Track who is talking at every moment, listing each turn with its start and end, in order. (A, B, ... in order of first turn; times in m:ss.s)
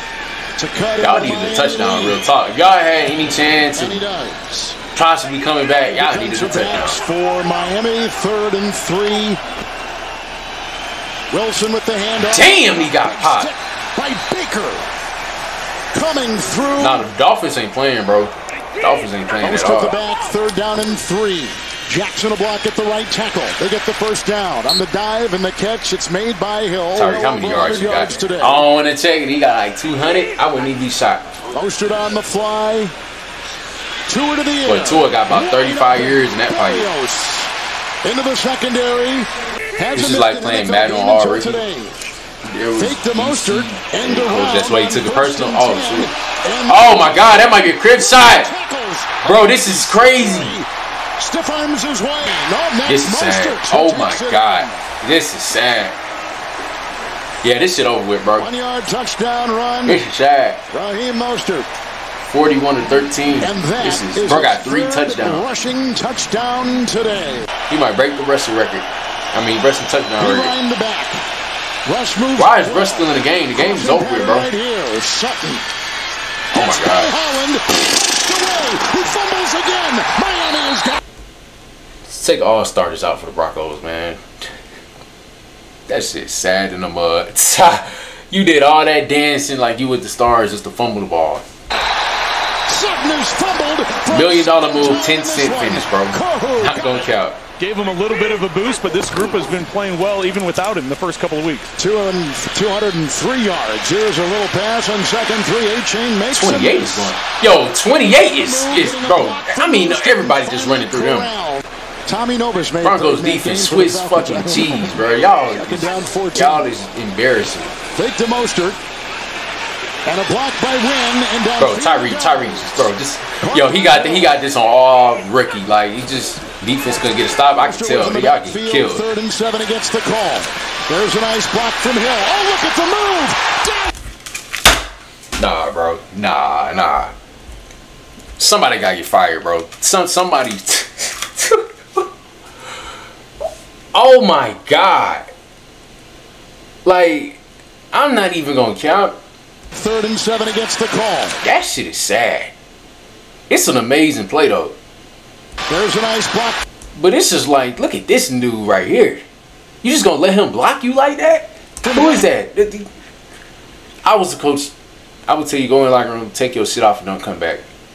0:00.6-0:02.2 A
0:01.0-0:04.0 B
0:03.7-0:04.8 A
0:04.9-0:07.0 B
0:05.8-0:09.4 A
0:11.3-0:14.9 A
0:12.2-0:13.5 B
0:15.9-0:17.1 A
0:16.8-0:20.0 B
0:19.4-0:28.6 A
0:26.9-0:31.4 B
0:31.5-0:32.9 A
0:34.1-0:37.5 A
0:34.6-0:36.9 B
0:38.0-0:41.9 A
0:39.9-0:41.6 B
0:42.4-0:46.1 B
0:42.8-0:54.8 A
0:46.7-0:48.5 B
0:49.2-0:50.6 B
0:52.8-0:56.0 B
0:57.4-0:58.5 B
0:58.4-1:00.0 A
0:59.8-1:00.6 B
1:00.7-1:01.7 A
1:02.3-1:05.4 B
1:03.4-1:07.5 A
1:07.7-1:10.5 B
1:10.2-1:11.2 A
1:11.8-1:15.6 A
1:12.4-1:14.5 B
1:16.5-1:17.2 B
1:16.5-1:21.0 A
1:22.0-1:24.2 B
1:25.9-1:31.4 B
1:32.7-1:37.1 A
1:34.1-1:37.4 B
1:37.6-1:41.7 C
1:41.8-1:47.1 A
1:46.3-1:51.3 B
1:48.2-1:56.7 A
1:52.8-1:57.8 B
1:57.9-1:58.8 A
2:00.0-2:04.4 A
2:01.6-2:09.1 B
2:07.6-2:13.9 A
2:15.4-2:17.1 B
2:18.4-2:22.0 B
2:23.9-2:25.3 B
2:26.8-2:27.4 B
2:27.9-2:29.2 B
2:29.7-2:31.4 A
2:31.4-2:32.5 B
2:33.5-2:34.7 B
2:35.7-2:36.6 A
2:37.0-2:39.2 B
2:39.8-2:42.9 B
2:41.8-2:42.3 A
2:44.0-2:44.7 B
2:45.3-2:47.6 B